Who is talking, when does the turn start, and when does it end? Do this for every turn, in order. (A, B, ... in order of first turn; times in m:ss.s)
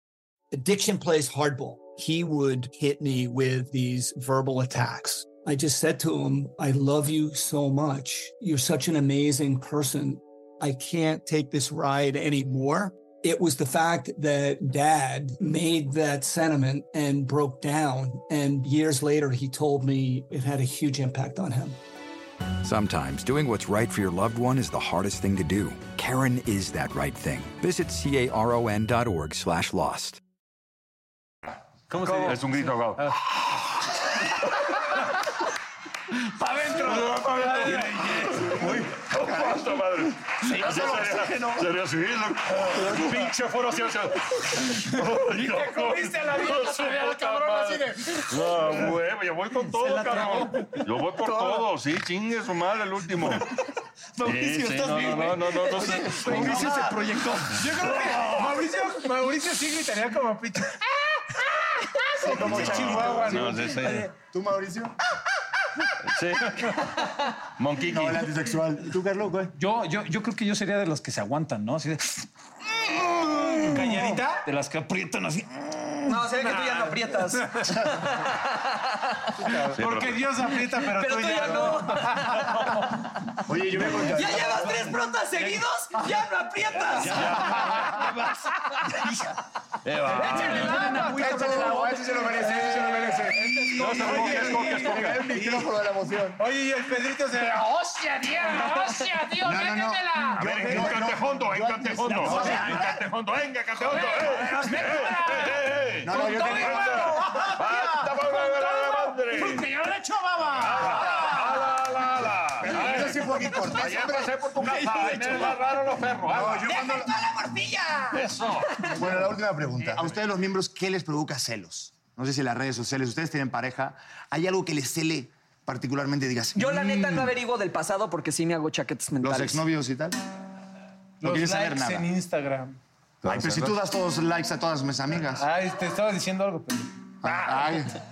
0:00.5-0:21.8 A
0:22.6-0:30.2 B
0:31.9-0:33.2 C
0:32.0-0:33.1 D
0:36.2-0:38.7 C
0:36.8-0:53.5 D
0:38.5-0:39.3 E
0:40.5-0:41.0 C
0:40.5-0:41.3 E
0:42.8-0:43.2 E
0:44.9-0:48.9 C
0:49.8-0:50.8 C
0:54.2-0:58.0 F
0:54.2-0:56.8 D
0:56.2-0:56.9 E
0:56.4-0:56.8 C
0:57.5-1:04.1 C
1:02.2-1:05.0 E
1:02.4-1:04.1 D
1:06.0-1:07.0 D
1:07.6-1:08.3 D
1:07.9-1:09.5 E
1:09.6-1:12.3 F
1:13.2-1:16.2 F
1:13.5-1:14.4 C
1:16.1-1:19.3 G
1:16.4-1:17.0 C
1:17.6-1:18.1 C
1:19.4-1:19.8 E
1:19.5-1:22.5 C
1:19.7-1:20.2 D
1:20.8-1:22.7 G
1:23.4-1:24.8 E
1:24.0-1:27.4 G
1:27.0-1:29.2 F
1:27.1-1:27.8 D
1:27.2-1:28.0 C
1:29.8-1:30.8 D
1:30.0-1:31.7 C
1:30.1-1:32.7 F
1:30.3-1:36.4 E
1:32.6-1:34.9 C
1:33.7-1:34.8 F
1:33.8-1:35.3 D
1:36.4-1:40.9 C
1:39.4-1:42.9 E
1:40.4-1:49.7 D
1:42.1-1:42.9 C
1:43.8-1:51.8 C
1:46.0-1:47.2 E
1:50.5-1:56.9 D
1:52.6-1:55.2 E
1:55.0-1:55.5 C
1:55.1-1:55.5 F
1:56.3-1:57.2 E
1:58.1-1:59.1 D
1:58.9-2:07.3 E
2:06.5-2:09.6 G
2:09.2-2:10.2 E
2:11.2-2:12.8 C
2:11.2-2:12.1 E
2:13.2-2:13.8 D
2:13.2-2:15.5 E
2:15.4-2:17.7 C
2:17.2-2:18.0 E